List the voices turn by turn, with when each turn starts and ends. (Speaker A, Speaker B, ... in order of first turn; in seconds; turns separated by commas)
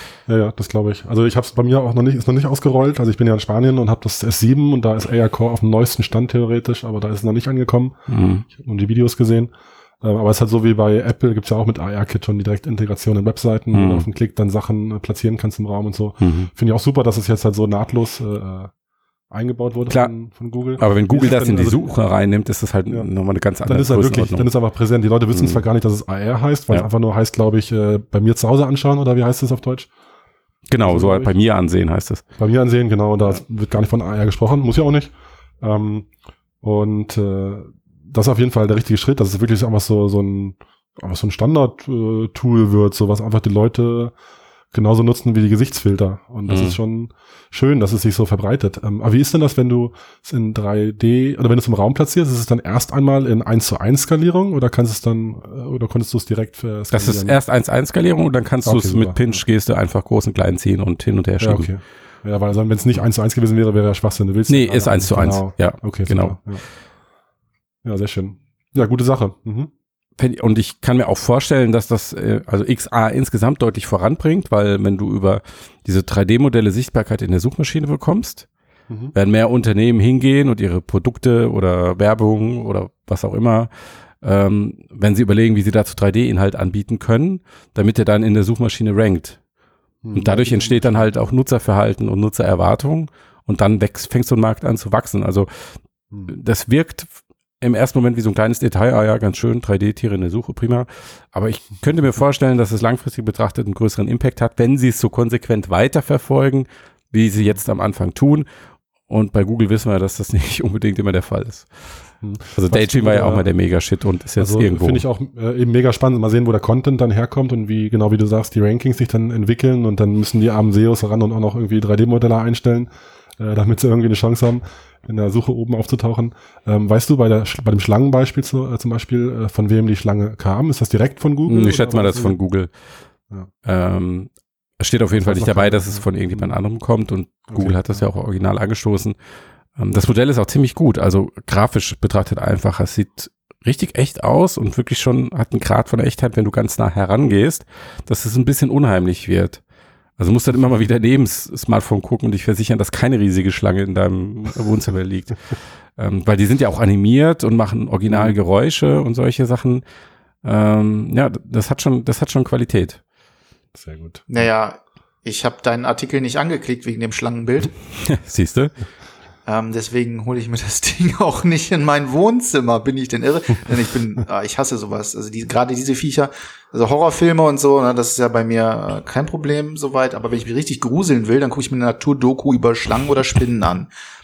Speaker A: 0.3-8.0, Speaker B: 8.1-8.5, Speaker A: 8.5-18.7, Speaker B: 13.7-14.1, Speaker B: 16.2-16.5, Speaker A: 19.3-21.9, Speaker B: 19.9-20.1, Speaker B: 20.8-24.5, Speaker A: 23.7-29.9, Speaker B: 25.3-25.6, Speaker B: 30.7-32.2, Speaker A: 30.8-31.3, Speaker A: 32.4-36.1, Speaker A: 36.6-44.1, Speaker A: 44.7-57.4, Speaker B: 46.5-46.8, Speaker B: 56.9-61.7, Speaker A: 58.6-59.4, Speaker A: 61.4-66.6, Speaker B: 64.5-66.4, Speaker A: 67.8-69.7, Speaker B: 70.2-78.5, Speaker A: 78.9-79.1, Speaker B: 79.1-83.7, Speaker B: 84.2-89.4, Speaker A: 90.0-91.3, Speaker B: 90.1-95.5, Speaker B: 96.3-108.5, Speaker B: 109.1-111.7, Speaker A: 112.2-113.5, Speaker B: 112.6-115.0, Speaker A: 114.4-132.4, Speaker B: 131.5-132.7, Speaker B: 133.6-139.2, Speaker A: 135.2-136.6, Speaker A: 137.5-138.0, Speaker B: 139.8-149.6, Speaker B: 150.2-155.4, Speaker B: 156.0-159.8, Speaker A: 158.1-158.3, Speaker B: 160.4-163.0, Speaker A: 163.7-164.4, Speaker C: 164.3-167.7, Speaker B: 168.1-168.7, Speaker C: 169.5-183.9